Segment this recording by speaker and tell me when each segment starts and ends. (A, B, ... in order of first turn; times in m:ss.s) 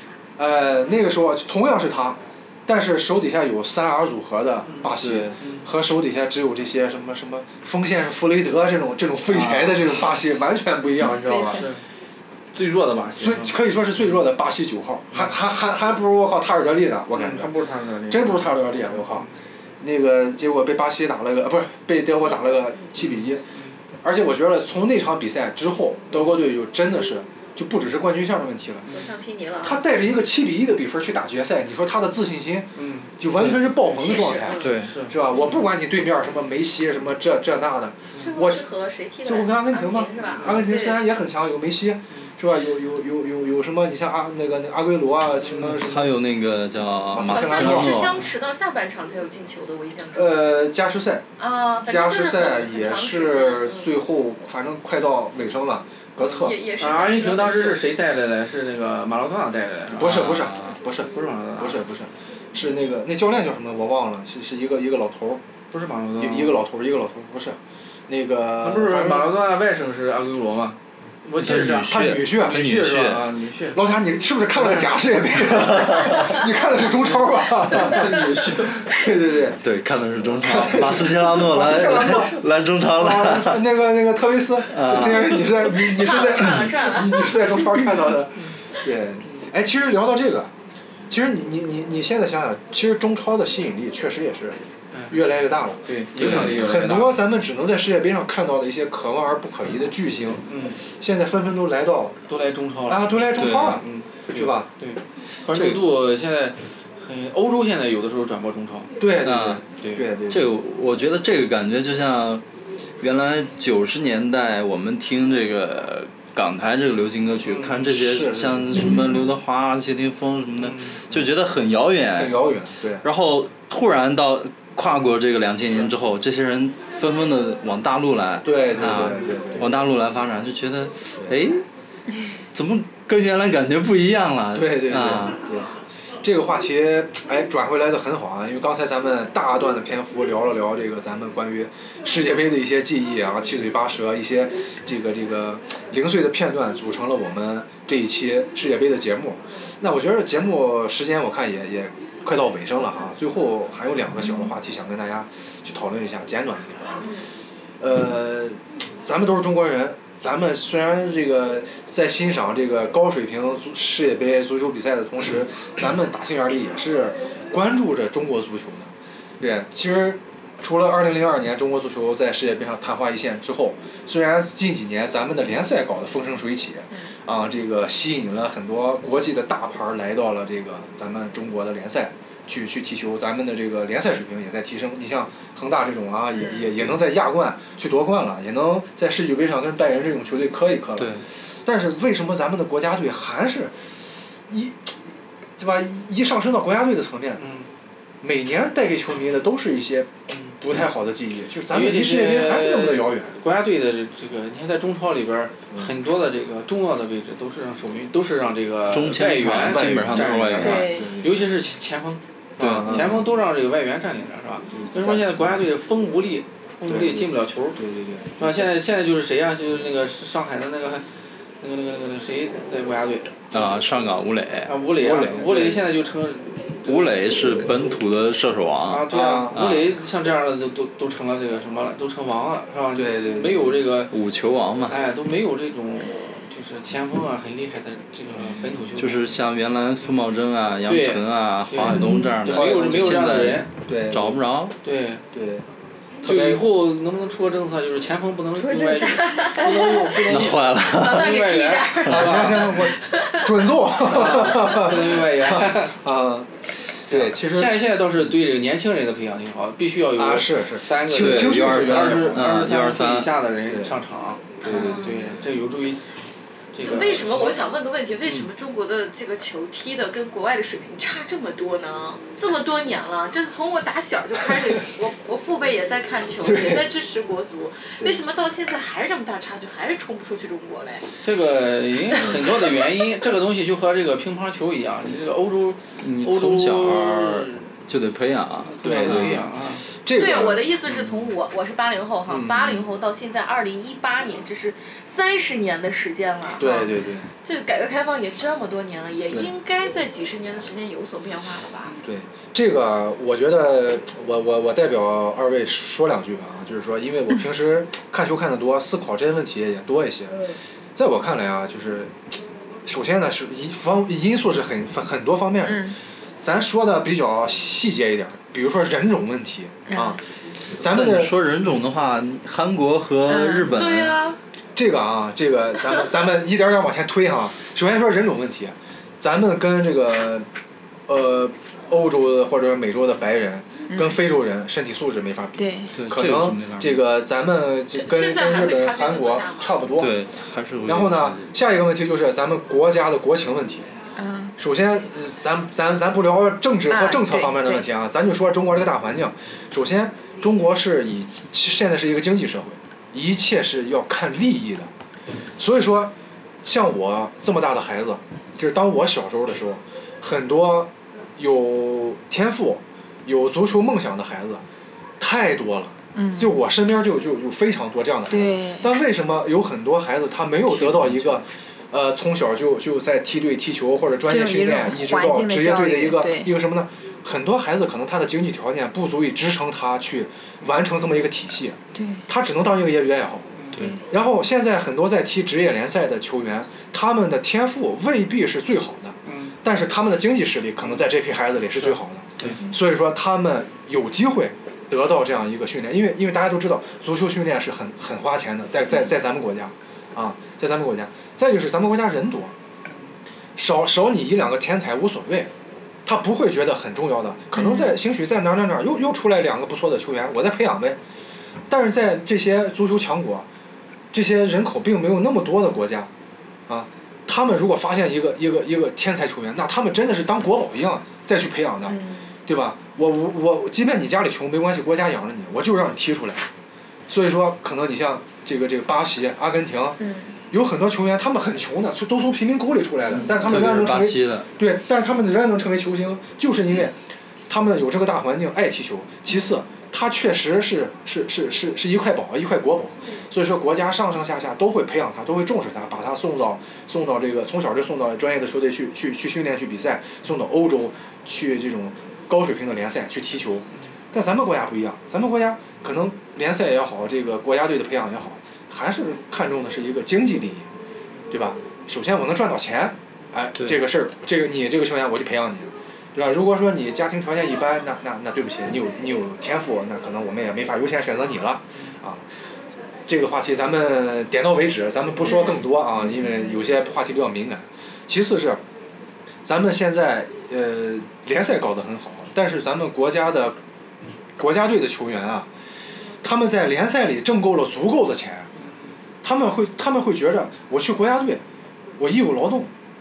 0:00.4-0:11.6 A
0:04.6-0:05.7 B
0:05.0-0:05.4 C
0:09.3-0:09.9 C
0:11.1-0:11.6 D
0:11.5-0:11.8 B
0:12.5-0:13.5 B
0:13.2-0:17.5 A
0:17.1-0:19.3 B
0:18.1-0:19.3 A
0:19.8-0:23.4 A
0:23.0-0:23.7 B
0:24.0-0:28.9 A
0:26.1-0:26.4 B
0:28.8-0:29.8 E
0:29.6-0:32.7 A
0:32.7-0:33.1 B
0:33.2-0:38.6 A
0:33.3-0:33.6 C
0:33.9-0:34.7 E
0:34.6-0:34.9 C
0:34.6-0:35.6 B
0:38.2-0:41.0 E
0:39.2-0:46.1 A
0:45.4-0:45.8 B
0:45.6-0:48.2 C
0:47.1-0:48.1 A
0:47.2-0:50.5 E
0:50.1-0:51.2 A
0:51.4-0:53.9 E
0:51.8-0:56.6 A
0:56.2-0:57.8 E
0:56.8-1:00.4 B
0:59.9-1:05.4 A
1:00.0-1:00.8 C
1:01.1-1:01.8 B
1:05.7-1:06.6 B
1:06.2-1:09.3 A
1:08.6-1:13.8 B
1:11.4-1:13.2 C
1:11.9-1:12.7 A
1:13.7-1:19.6 A
1:14.5-1:15.4 B
1:15.6-1:16.2 C
1:19.6-1:23.7 C
1:20.3-1:30.5 A
1:24.7-1:25.5 C
1:25.4-1:27.6 E
1:31.1-1:34.6 A
1:34.9-1:35.2 B
1:35.1-1:42.2 A
1:35.8-1:37.2 B
1:40.5-1:40.8 B
1:42.3-1:49.0 B
1:42.9-1:44.7 A
1:43.3-1:43.8 C
1:45.5-1:45.8 C
1:49.0-1:50.5 A
1:49.2-1:49.6 C
1:49.8-1:50.0 B
1:50.3-1:52.4 C
1:53.0-2:02.5 C
1:57.4-1:57.9 B
1:57.9-1:58.9 A
2:00.6-2:01.0 B
2:02.1-2:03.0 A
2:03.0-2:11.6 C
2:08.4-2:09.7 A
2:08.7-2:09.3 B
2:12.5-2:15.4 C
2:14.5-2:15.7 A
2:16.2-2:37.1 A
2:37.8-2:48.9 A
2:49.4-3:13.7 A
3:11.0-3:11.2 C
3:14.5-3:14.8 A
3:15.6-3:17.4 A
3:17.4-3:17.7 B
3:18.2-3:23.3 A
3:21.7-3:37.8 B
3:28.9-3:31.0 C
3:29.5-3:31.4 A
3:30.6-3:31.2 D
3:32.6-3:33.2 A
3:32.6-3:33.1 C
3:34.7-3:35.4 A
3:36.8-3:38.7 A
3:38.4-3:41.0 B
3:41.6-3:43.4 B
3:43.5-3:44.7 C
3:44.6-3:47.3 B
3:45.0-3:45.9 A
3:46.8-3:49.9 C
3:48.9-3:54.1 B
3:49.1-3:49.6 A
3:52.9-3:53.8 A
3:54.1-3:55.0 C
3:54.9-3:59.3 B
3:59.0-4:04.7 C
4:00.8-4:03.7 B
4:01.9-4:03.2 A
4:03.8-4:04.4 A
4:04.8-4:05.2 B
4:05.3-4:05.6 A
4:06.2-4:06.6 A
4:06.2-4:12.8 B
4:08.6-4:09.7 D
4:09.1-4:10.0 E
4:10.2-4:11.4 C
4:10.7-4:13.7 E
4:12.0-4:16.5 A
4:14.0-4:16.0 B
4:17.1-4:17.8 A
4:17.1-4:26.1 B
4:20.1-4:22.5 A
4:21.1-4:23.3 C
4:23.7-4:24.0 A
4:24.6-4:25.0 A
4:24.7-4:25.3 E
4:26.7-4:27.7 B
4:26.8-4:41.1 E
4:36.4-4:36.9 A
4:41.2-4:47.7 B
4:46.0-4:49.4 C
4:48.6-4:49.8 B
4:48.8-4:49.4 A
4:50.0-4:51.1 A
4:50.2-4:56.9 E
4:52.3-4:52.8 A
4:56.6-4:57.3 A
4:57.4-5:02.0 E
5:02.0-5:12.2 A
5:12.8-5:15.9 A
5:15.6-5:16.0 D
5:16.4-5:20.2 A
5:19.9-5:20.2 D
5:20.7-5:21.3 A
5:20.8-5:24.2 C
5:23.3-5:23.7 D
5:23.7-5:24.4 E
5:24.8-5:30.4 A
5:31.1-5:40.1 A
5:33.9-5:34.2 D
5:35.6-5:36.0 D
5:35.9-5:37.0 C
5:37.9-5:39.8 E
5:40.0-5:41.5 C
5:40.8-5:43.8 A
5:44.2-5:44.5 D
5:44.6-5:54.9 A
5:46.9-5:47.8 D
5:55.6-5:56.1 A
5:56.6-6:04.6 A
6:05.2-6:23.5 A
6:06.1-6:06.6 D
6:08.3-6:08.9 D
6:10.8-6:11.4 B
6:14.3-6:16.5 D
6:21.9-6:22.2 D
6:23.5-6:23.9 B
6:23.8-6:24.0 D
6:24.0-6:42.5 A
6:29.2-6:29.6 B
6:32.5-6:32.7 D
6:43.6-6:45.5 A
6:46.0-6:51.0 A
6:47.5-6:48.0 D
6:51.7-6:53.4 A
6:54.1-6:56.1 A
6:56.7-7:06.4 A
7:01.9-7:02.3 D
7:07.1-7:10.0 A
7:10.0-7:10.3 D
7:10.5-7:17.0 A
7:13.2-7:14.5 C
7:17.5-7:40.6 A
7:41.3-7:52.2 A
7:43.6-7:43.8 C
7:53.1-7:58.6 A
7:55.3-7:55.6 D
7:59.4-8:03.6 A
8:04.4-8:05.5 A
8:06.2-8:08.5 A
8:09.2-8:11.4 A
8:12.0-8:12.7 A